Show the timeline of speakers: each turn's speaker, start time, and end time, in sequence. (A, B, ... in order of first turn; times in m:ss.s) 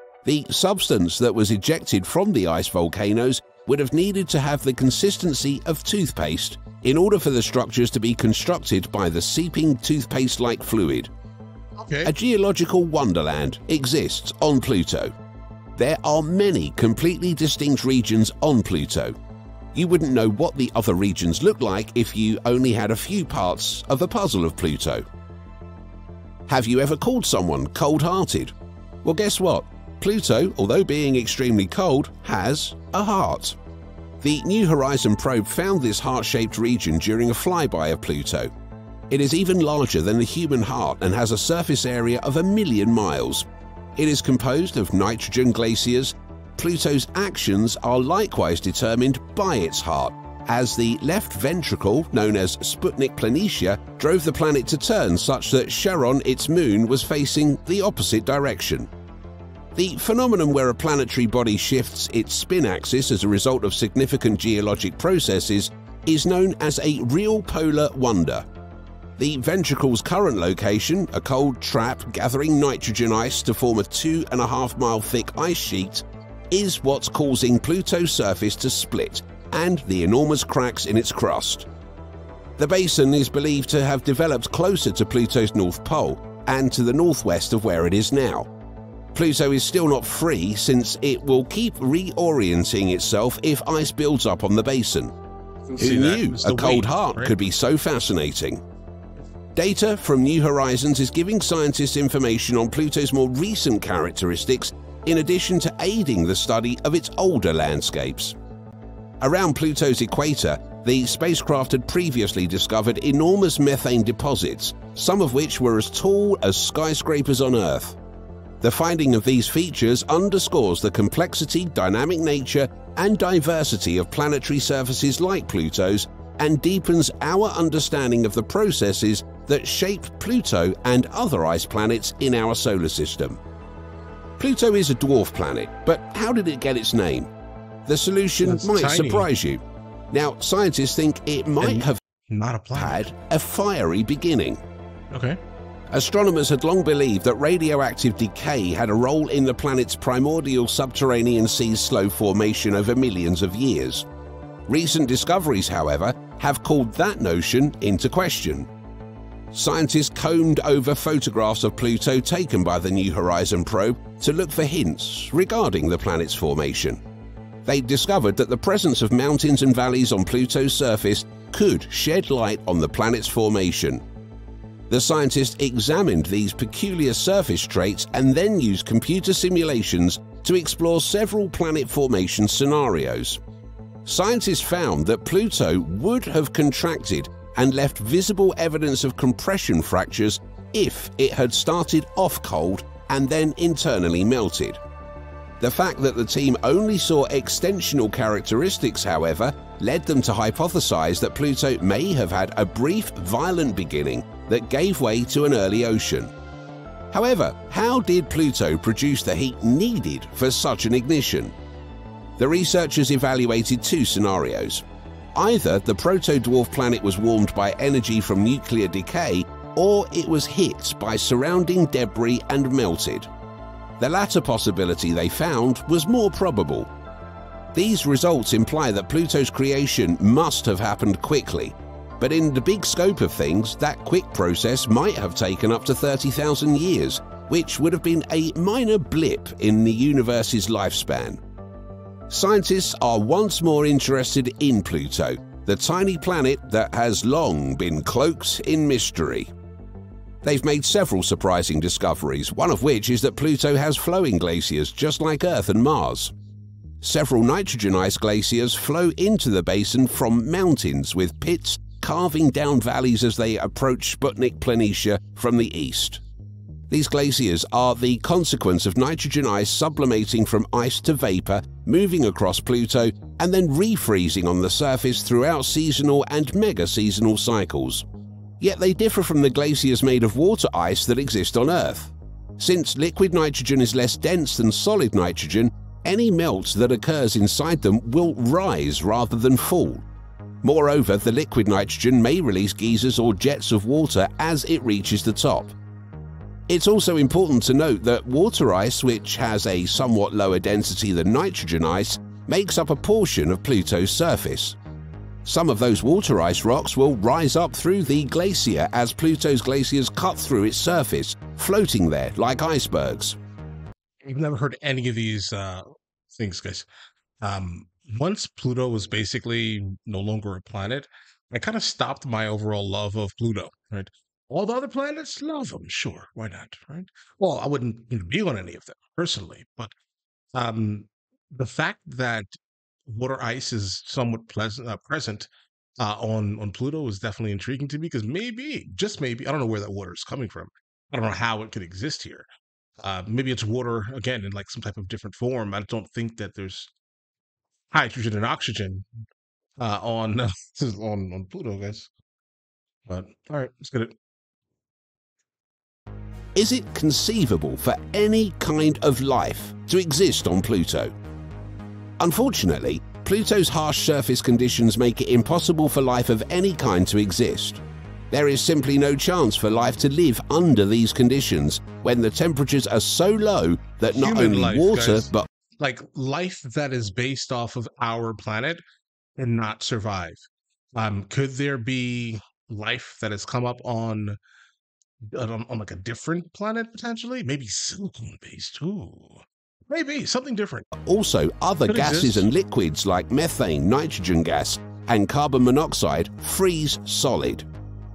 0:00.2-0:11.1 A
0:11.8-0:12.1 B
0:12.0-0:15.1 A
0:15.8-0:19.1 A
0:19.7-0:25.0 A
0:26.5-0:28.5 A
0:29.0-0:33.6 A
0:34.2-0:38.5 A
0:39.1-0:43.4 A
0:44.0-0:58.9 A
0:59.7-1:08.4 A
1:09.2-1:21.7 A
1:22.6-1:28.5 A
1:29.1-1:35.1 A
1:35.7-1:37.4 B
1:35.8-1:38.6 A
1:39.5-1:48.4 A
1:49.2-1:58.0 A
1:58.6-2:13.4 A
2:14.4-2:17.3 A
2:17.8-2:19.6 A
2:18.4-2:19.3 B
2:20.1-2:22.0 A
2:21.6-2:23.1 B
2:22.7-2:24.6 A
2:25.1-2:25.4 B
2:25.9-2:34.1 A
2:34.7-2:38.7 A
2:39.5-2:47.0 A
2:47.6-2:54.0 A
2:54.9-3:03.4 A
3:04.0-3:14.8 A
3:15.6-3:26.3 A
3:27.1-3:31.5 A
3:32.4-3:34.8 A
3:35.3-3:43.3 A
3:44.0-3:46.9 A
3:47.7-4:01.4 A
4:02.3-4:09.5 A
4:10.4-4:16.3 A
4:17.0-4:26.2 A
4:26.9-4:38.0 A
4:38.6-4:50.0 A
4:50.6-4:55.7 A
4:56.7-5:04.8 A
5:05.4-5:13.4 A
5:14.2-5:16.9 B
5:17.4-5:29.9 B
5:30.5-5:32.5 B
5:33.1-5:35.5 B
5:36.0-5:42.5 B
5:43.0-5:46.9 B
5:47.9-5:49.1 B
5:49.8-5:52.1 B
5:53.1-5:54.2 B
5:56.5-6:01.1 A
6:02.2-6:15.5 A
6:14.0-6:18.8 B
6:19.4-6:24.4 B
6:25.3-6:30.9 B
6:30.9-6:37.6 A
6:31.8-6:32.5 B